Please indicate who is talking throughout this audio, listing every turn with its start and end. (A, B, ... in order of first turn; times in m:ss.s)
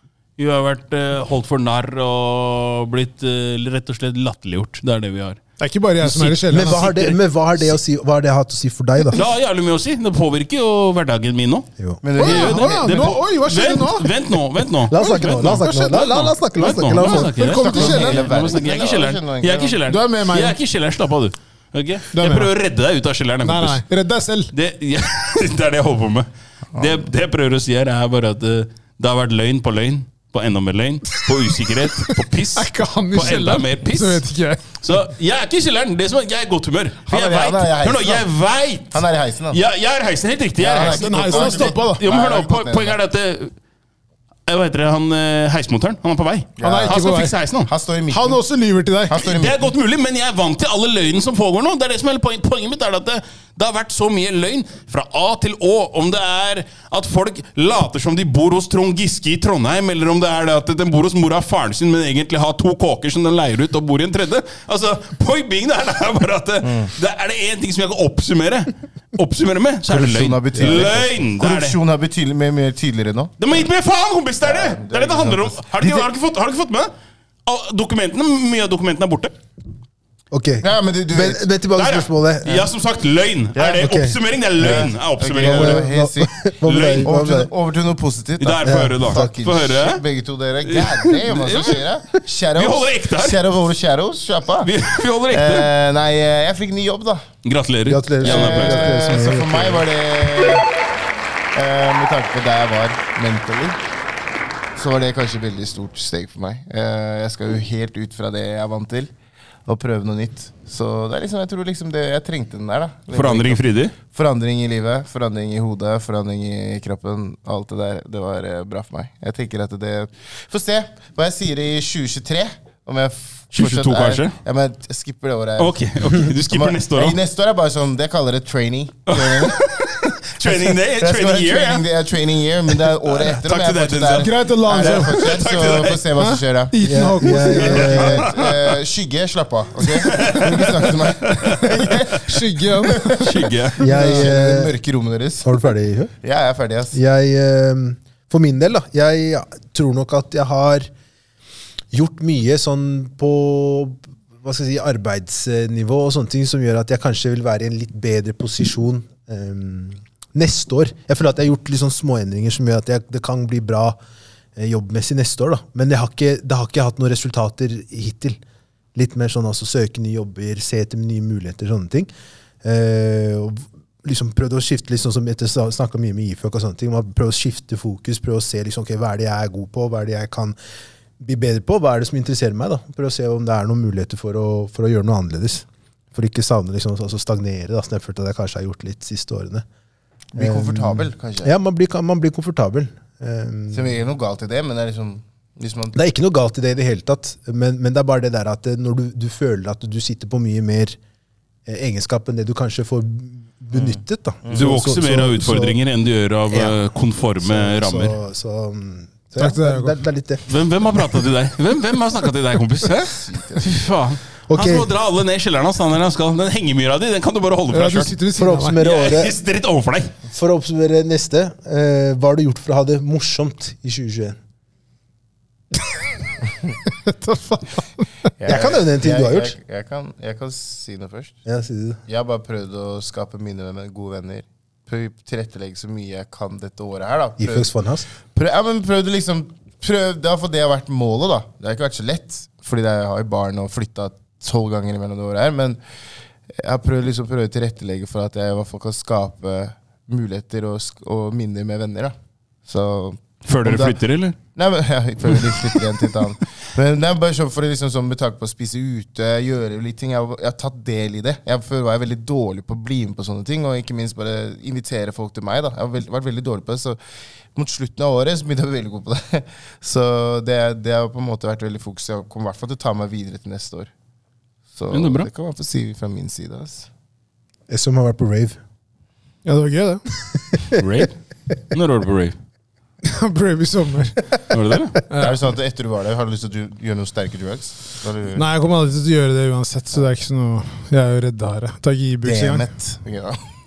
0:00.4-0:05.4 A
0:05.6-0:06.8 B
0:06.0-0:07.2 A
0:06.5-0:09.2 C
0:09.1-0:23.8 A
0:12.0-0:13.2 D
0:12.2-0:14.1 B
0:14.9-0:17.3 C
0:15.4-0:16.1 B
0:16.9-0:18.3 B
0:17.4-0:19.8 D
0:19.8-0:20.6 B
0:22.1-0:22.5 B
0:23.4-0:24.5 B
0:24.5-0:34.2 A
0:32.5-0:34.7 B
0:34.8-0:43.5 A
0:37.1-0:38.3 D
0:38.9-0:39.6 D
0:40.6-0:42.9 D
0:40.8-0:42.0 B
0:44.5-0:47.7 A
0:46.6-0:47.0 D
0:46.6-0:47.3 B
0:47.7-0:48.4 D
0:48.1-0:49.1 B
0:49.1-0:49.6 D
0:49.2-1:11.7 A
1:06.6-1:06.9 D
1:09.9-1:13.6 D
1:10.6-1:10.8 C
1:13.4-1:16.9 A
1:14.4-1:15.9 D
1:17.4-1:19.3 A
1:20.3-1:22.6 C
1:20.6-1:21.4 D
1:21.8-1:25.8 A
1:23.6-1:24.2 C
1:24.6-1:26.4 D
1:25.4-1:27.5 C
1:26.6-1:27.2 A
1:27.0-1:34.7 D
1:28.4-1:30.0 A
1:28.6-1:29.4 C
1:30.6-1:31.8 A
1:32.6-1:33.4 A
1:34.6-1:35.7 A
1:35.3-1:37.2 D
1:37.4-1:38.9 A
1:37.9-1:39.8 C
1:38.2-1:40.6 D
1:41.5-1:43.8 D
1:44.7-1:49.1 D
1:49.7-2:09.6 D
1:53.1-1:53.9 A
2:03.5-2:04.4 A
2:05.6-2:07.2 A
2:09.1-2:11.8 A
2:10.6-2:16.7 D
2:13.2-2:16.1 A
2:14.1-2:15.4 B
2:16.2-2:18.4 B
2:16.8-2:18.3 C
2:17.3-2:25.6 D
2:17.6-2:18.5 A
2:19.8-2:22.1 A
2:22.2-2:23.3 B
2:23.2-2:24.2 A
2:23.8-2:24.8 C
2:25.4-2:26.1 C
2:26.2-2:27.0 D
2:26.9-2:30.9 C
2:31.9-2:44.0 C
2:44.6-2:48.4 C
2:48.9-2:52.1 C
2:52.6-3:00.6 C
3:01.2-3:09.6 C
3:10.3-3:11.5 D
3:10.4-3:13.9 C
3:13.7-3:16.0 D
3:15.9-3:21.0 C
3:21.7-3:25.8 C
3:23.7-3:24.8 D
3:24.5-3:28.2 A
3:26.5-3:30.6 C
3:29.4-3:30.0 B
3:30.5-3:38.1 A
3:33.0-3:33.8 D
3:34.5-3:34.9 C
3:37.7-3:38.8 B
3:38.4-3:39.3 C
3:38.8-3:40.1 A
3:40.3-3:44.4 C
3:46.9-3:48.1 B
3:48.4-3:51.4 D
3:48.4-3:49.6 C
3:51.4-3:52.0 C
3:52.1-3:57.7 D
3:57.4-3:58.1 C
3:58.3-4:05.8 D
4:06.6-4:12.1 D
4:12.6-4:14.0 D
4:13.4-4:14.4 A
4:14.5-4:27.0 D
4:27.5-4:33.9 D
4:34.7-4:36.9 D
4:34.9-4:35.3 A
4:37.7-4:38.6 C
4:39.4-4:40.0 B
4:40.8-4:41.2 A
4:41.7-4:42.4 A
4:43.0-4:44.4 B
4:44.5-4:45.0 A
4:45.1-4:45.4 B
4:45.2-4:48.4 D
4:48.3-4:52.7 B
4:52.2-4:53.4 D